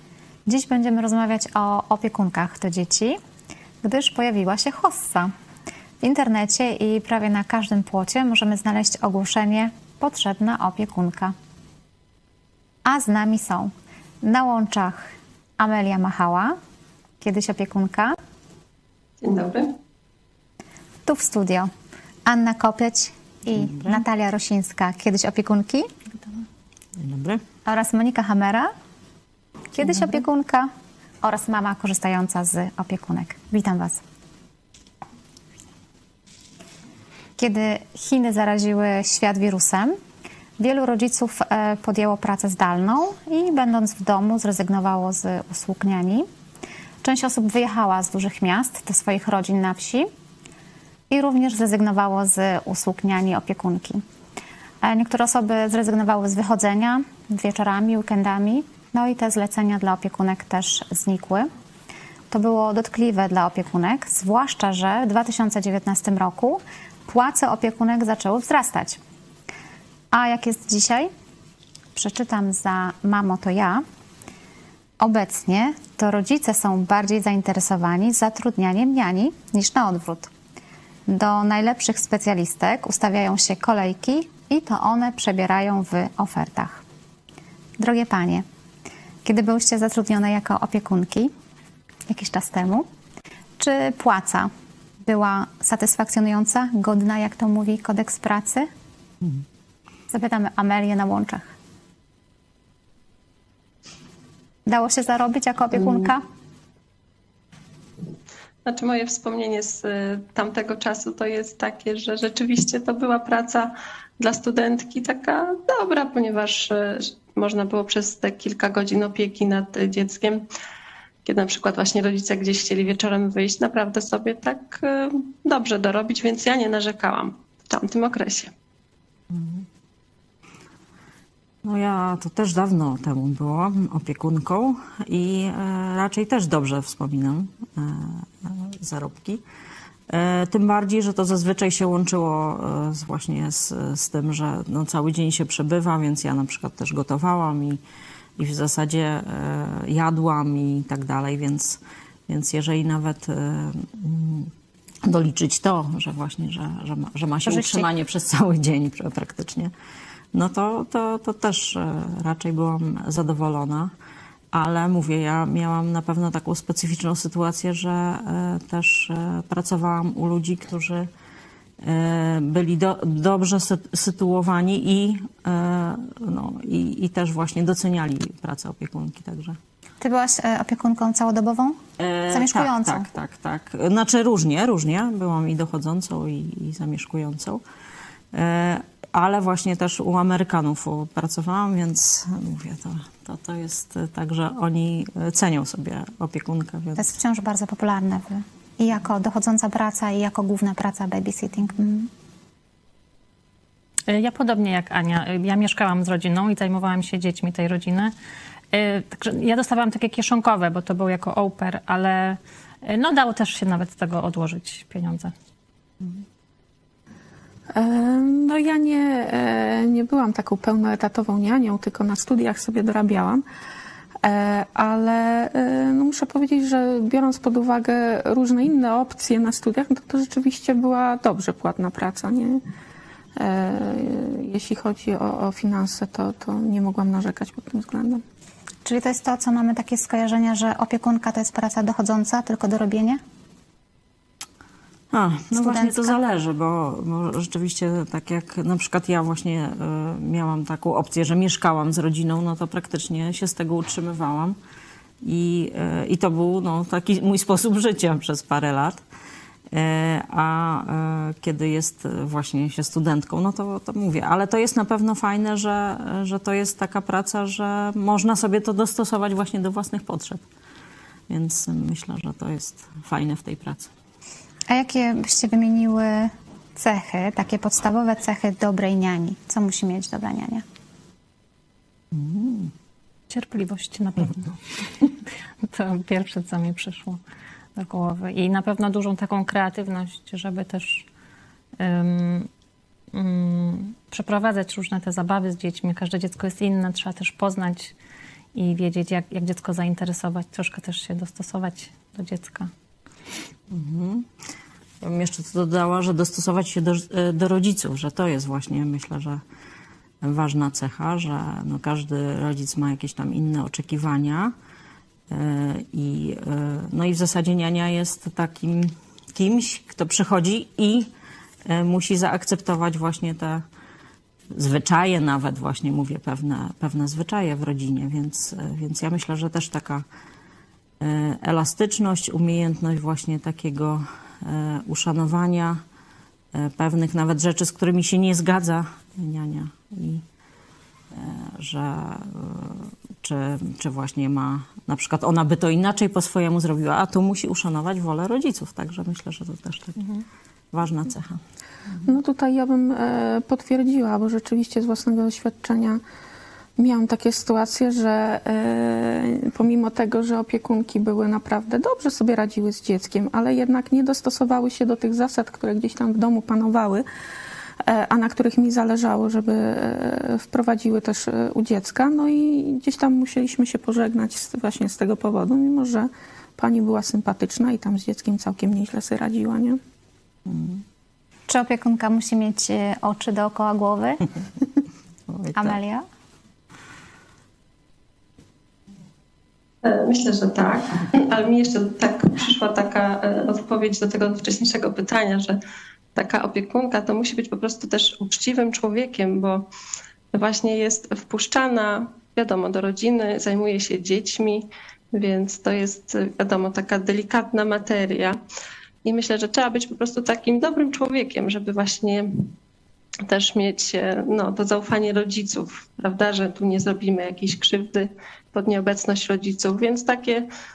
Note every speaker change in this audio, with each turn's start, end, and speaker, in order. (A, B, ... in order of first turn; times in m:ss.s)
0:00.5-0:03.2 A
0:03.8-0:05.3 A
0:06.0-0:11.4 A
0:12.8-0:16.6 A
0:17.2-0:18.2 A
0:19.2-0:19.7 B
0:21.0-0:21.7 A
0:22.3-0:25.9 A
0:23.6-0:24.0 C
0:27.0-0:27.4 C
0:27.7-0:28.7 A
0:29.7-0:30.7 A
0:31.2-0:34.0 A
0:37.4-0:40.0 A
0:40.6-0:46.3 A
0:47.0-0:50.1 A
0:51.1-0:54.0 A
0:54.8-1:01.5 A
1:02.3-1:09.0 A
1:10.1-1:11.1 A
1:12.0-1:13.8 A
1:15.0-1:20.3 A
1:21.1-1:26.8 A
1:27.8-1:28.4 A
1:29.2-1:31.3 A
1:32.1-1:32.9 A
1:33.6-1:34.5 A
1:35.0-1:38.7 A
1:40.1-1:41.6 A
1:44.7-1:46.2 A
1:48.6-2:00.4 B
2:01.2-2:08.5 B
2:09.3-2:09.7 C
2:11.6-2:19.4 C
2:20.1-2:27.8 C
2:28.4-2:34.5 C
2:35.0-2:39.7 C
2:37.4-2:37.9 A
2:40.3-2:43.9 C
2:44.5-2:51.1 C
2:51.8-2:59.6 C
3:00.0-3:01.8 A
3:02.0-3:07.6 C
3:02.3-3:03.1 A
3:08.3-3:17.1 C
3:17.0-3:22.1 A
3:24.1-3:28.1 D
3:28.7-3:35.3 D
3:37.7-3:43.4 E
3:44.2-3:52.6 E
3:53.4-3:58.2 E
3:58.8-4:03.2 A
4:05.1-4:14.6 C
4:05.5-4:06.2 A
4:15.2-4:19.0 C
4:19.7-4:30.4 C
4:31.3-4:33.9 C
4:34.7-4:40.6 A
4:42.1-4:42.7 C
4:43.3-4:45.1 D
4:45.7-4:47.2 D
4:47.8-4:51.1 D
4:51.8-4:52.5 D
4:53.1-4:57.9 D
4:58.6-5:02.7 D
5:03.7-5:04.3 C
5:05.0-5:09.4 C
5:10.2-5:14.5 C
5:15.3-5:21.1 C
5:21.7-5:23.6 C
5:24.5-5:30.0 C
5:31.0-5:35.8 C
5:36.5-5:40.2 C
5:41.1-5:50.0 C
5:50.7-5:51.4 C
5:52.0-5:56.0 E
5:56.8-6:07.0 E
6:07.8-6:19.8 E
6:20.5-6:20.8 C
6:21.5-6:24.3 A
6:25.3-6:25.8 C
6:25.5-6:26.1 A
6:29.8-6:35.6 B
6:36.2-6:39.7 B
6:40.3-6:48.4 B
6:49.0-6:52.5 B
6:53.3-7:00.4 B